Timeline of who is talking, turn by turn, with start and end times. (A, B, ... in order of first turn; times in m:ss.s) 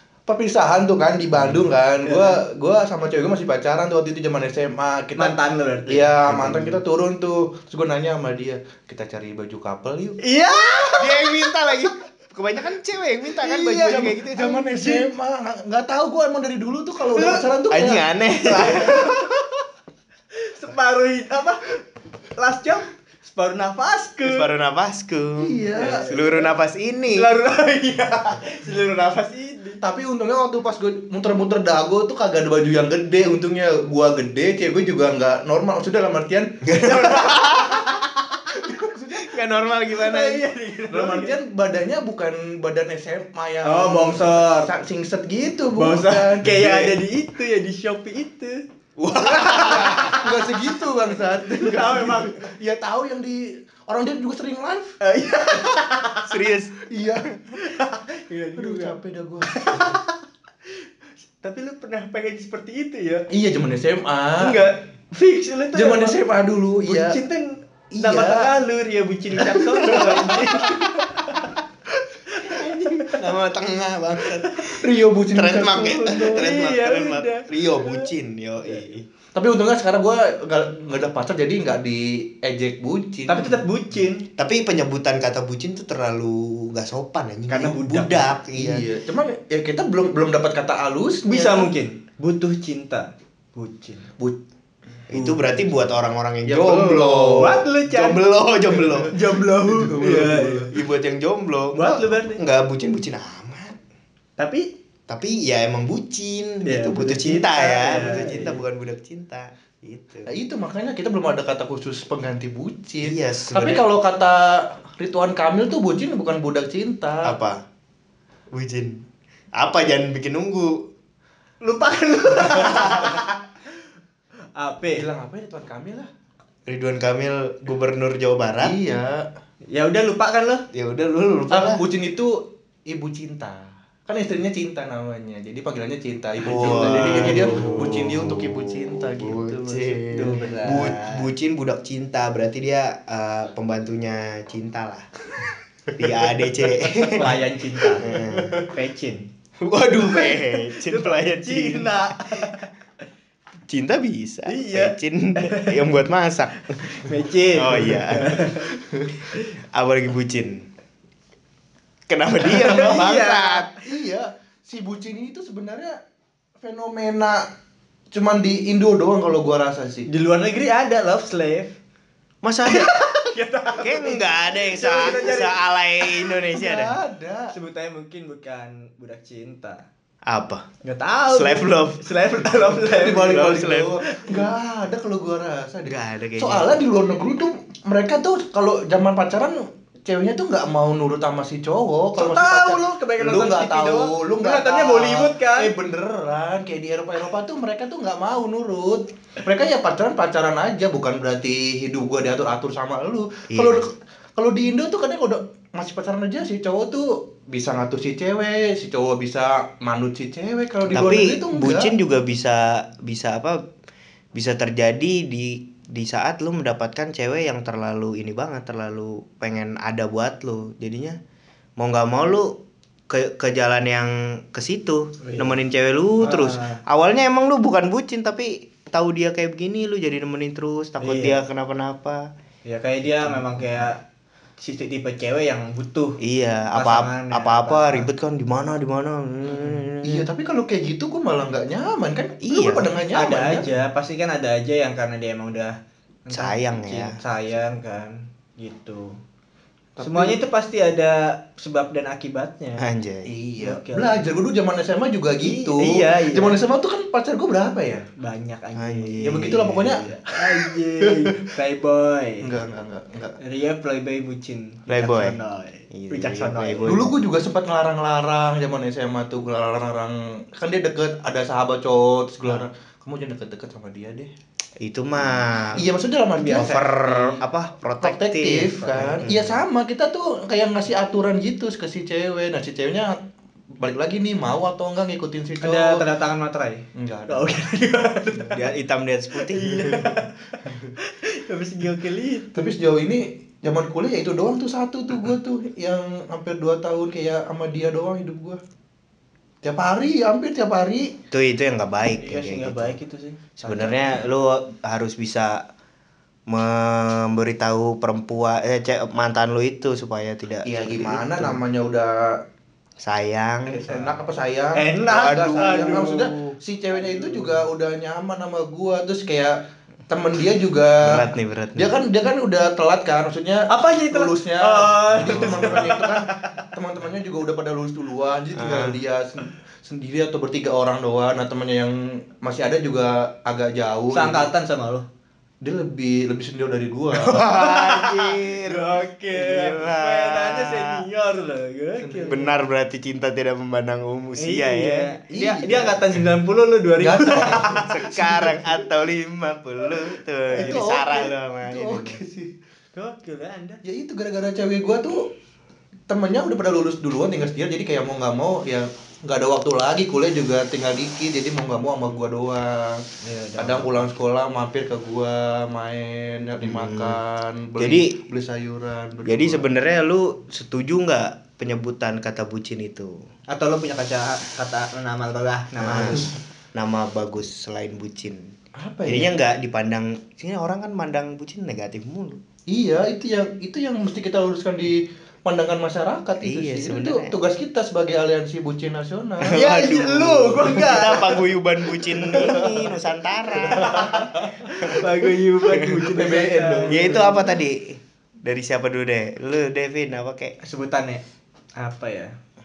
0:00.2-0:05.3 A
0:02.0-0:02.4 B
0:05.2-0:06.8 B
0:05.9-0:10.2 A
0:10.2-0:11.4 B
0:10.9-0:14.9 C
0:13.4-0:18.9 A
0:17.1-0:17.5 B
0:17.7-0:19.3 C
0:18.4-0:19.4 B
0:20.3-0:21.8 B
0:22.4-0:24.5 B
0:24.2-0:27.3 C
0:25.4-0:26.1 A
0:25.8-0:26.5 B
0:27.1-0:29.8 B
0:29.8-0:37.1 A
0:36.6-0:38.0 C
0:36.8-0:38.9 B
0:38.6-0:39.3 A
0:39.1-0:40.4 C
0:40.0-0:41.4 B
0:40.9-0:46.9 A
0:43.6-0:44.7 B
0:45.7-0:48.6 B
0:49.0-0:50.2 C
0:49.2-0:55.0 A
0:49.3-0:50.5 B
0:51.3-0:52.4 B
0:55.0-0:56.4 B
0:56.2-0:56.9 C
0:56.8-0:57.3 A
0:57.5-1:00.2 B
0:58.6-1:00.0 A
1:01.4-1:03.3 B
1:03.3-1:04.6 A
1:04.4-1:06.2 B
1:05.7-1:07.2 A
1:06.8-1:11.5 B
1:07.9-1:08.5 A
1:09.4-1:11.0 A
1:12.3-1:13.3 B
1:12.5-1:19.1 C
1:14.3-1:14.6 B
1:14.7-1:16.5 A
1:16.0-1:18.1 B
1:19.3-1:23.6 A
1:23.3-1:24.3 B
1:24.4-1:28.8 C
1:27.5-1:28.4 B
1:28.5-1:31.7 A
1:31.3-1:34.1 B
1:35.1-1:39.1 C
1:35.1-1:35.5 B
1:36.4-1:37.6 A
1:37.4-1:38.2 B
1:38.8-1:40.7 A
1:39.1-1:40.7 B
1:40.7-1:43.8 C
1:41.7-1:42.4 B
1:44.4-1:44.7 B
1:45.1-1:50.3 C
1:46.6-1:48.6 B
1:50.3-1:57.4 A
1:53.0-1:53.8 C
1:57.2-1:57.6 C
1:58.5-2:00.9 C
2:01.6-2:03.3 B
2:02.6-2:03.2 C
2:04.5-2:05.0 B
2:04.9-2:06.1 A
2:06.7-2:08.7 C
2:08.6-2:09.3 A
2:09.7-2:10.6 B
2:10.7-2:11.8 C
2:11.5-2:20.4 A
2:16.4-2:27.4 C
2:16.5-2:17.9 B
2:20.1-2:21.3 B
2:27.0-2:28.6 A
2:27.1-2:29.3 B
2:28.0-2:28.6 C
2:29.6-2:32.5 C
2:30.0-2:32.7 B
2:33.7-2:37.0 C
2:34.4-2:35.9 B
2:36.8-2:38.7 B
2:37.5-2:38.6 C
2:38.7-2:39.1 A
2:39.7-2:40.7 C
2:42.1-2:43.7 C
2:42.4-2:43.7 B
2:43.8-2:46.0 A
2:46.6-2:47.5 A
2:48.1-2:50.1 A
2:50.1-2:51.8 B
2:52.4-2:53.0 C
2:52.6-2:56.4 B
2:53.8-2:57.0 C
2:56.5-2:57.5 A
2:57.5-2:59.8 B
3:00.3-3:00.7 C
3:00.8-3:04.5 B
3:01.3-3:02.5 C
3:02.7-3:31.9 A
3:03.1-3:03.9 C
3:05.8-3:06.8 C
3:12.2-3:15.7 B
3:23.5-3:23.9 C
3:30.9-3:33.6 C
3:34.3-3:41.2 C
3:41.8-3:52.3 C
3:45.2-3:45.6 B
3:46.2-3:46.8 B
3:51.0-3:51.4 B
3:52.6-3:54.0 B
3:53.1-3:53.9 C
3:54.6-3:56.2 B
3:56.2-4:00.3 C
3:56.7-3:58.1 B
3:59.6-3:59.8 B
4:00.0-4:03.7 A
4:02.4-4:02.9 C
4:03.1-4:05.7 B
4:06.3-4:09.2 B
4:06.3-4:07.2 C
4:10.0-4:10.4 A
4:10.0-4:12.8 B
4:12.8-4:13.3 C
4:13.2-4:18.1 A
4:13.6-4:14.3 B
4:15.4-4:16.6 B
4:18.2-4:22.4 B
4:18.8-4:20.0 C
4:19.2-4:21.5 A
4:22.4-4:23.4 A
4:23.4-4:27.0 B
4:24.9-4:25.4 C
4:25.9-4:27.1 C
4:26.8-4:34.3 A
4:34.8-4:35.8 C
4:35.7-4:36.8 A
4:36.4-4:37.4 B
4:36.5-4:39.6 C
4:38.0-4:43.2 A
4:38.8-4:39.2 B
4:43.8-4:46.0 A
4:45.6-4:48.7 B
4:47.0-4:47.6 A
4:48.5-4:50.0 C
4:49.3-4:52.5 B
4:50.6-4:50.9 A
4:52.5-4:58.6 A
4:59.6-5:01.1 A
5:01.3-5:03.0 C
5:02.2-5:04.0 B
5:03.6-5:05.6 C
5:06.5-5:11.6 C
5:10.6-5:12.4 A
5:13.0-5:13.8 C
5:13.7-5:14.2 B
5:13.8-5:34.5 A
5:14.8-5:16.3 B
5:15.0-5:16.1 C
5:17.0-5:17.6 B
5:21.0-5:21.9 C
5:23.7-5:26.6 B
5:25.2-5:25.9 C
5:28.6-5:29.0 C
5:34.1-5:35.0 B
5:35.6-5:37.5 A
5:37.2-5:41.0 C
5:37.5-5:42.4 B
5:42.0-5:42.5 A
5:42.3-5:45.1 C
5:44.4-5:47.9 B
5:45.3-5:46.1 A
5:47.0-5:48.8 A
5:47.4-5:52.2 C
5:50.5-5:52.5 A
5:50.5-5:50.8 B
5:52.9-5:53.8 B
5:53.8-5:55.3 A
5:56.1-6:03.0 A
6:03.2-6:04.1 B
6:03.6-6:09.7 A
6:06.6-6:07.2 C
6:07.8-6:08.2 C
6:09.2-6:13.2 C
6:13.5-6:16.3 B
6:15.8-6:18.5 C
6:18.8-6:19.3 A
6:19.0-6:22.4 C
6:22.7-6:29.6 A
6:26.4-6:27.3 C
6:29.4-6:35.0 C
6:29.5-6:31.5 B
6:30.8-6:31.1 A
6:32.2-6:32.8 A
6:32.3-6:32.9 B
6:33.6-6:35.0 A
6:33.7-6:37.4 B
6:35.9-6:37.4 A
6:36.9-6:40.6 C
6:40.6-6:41.2 B
6:41.8-6:42.3 B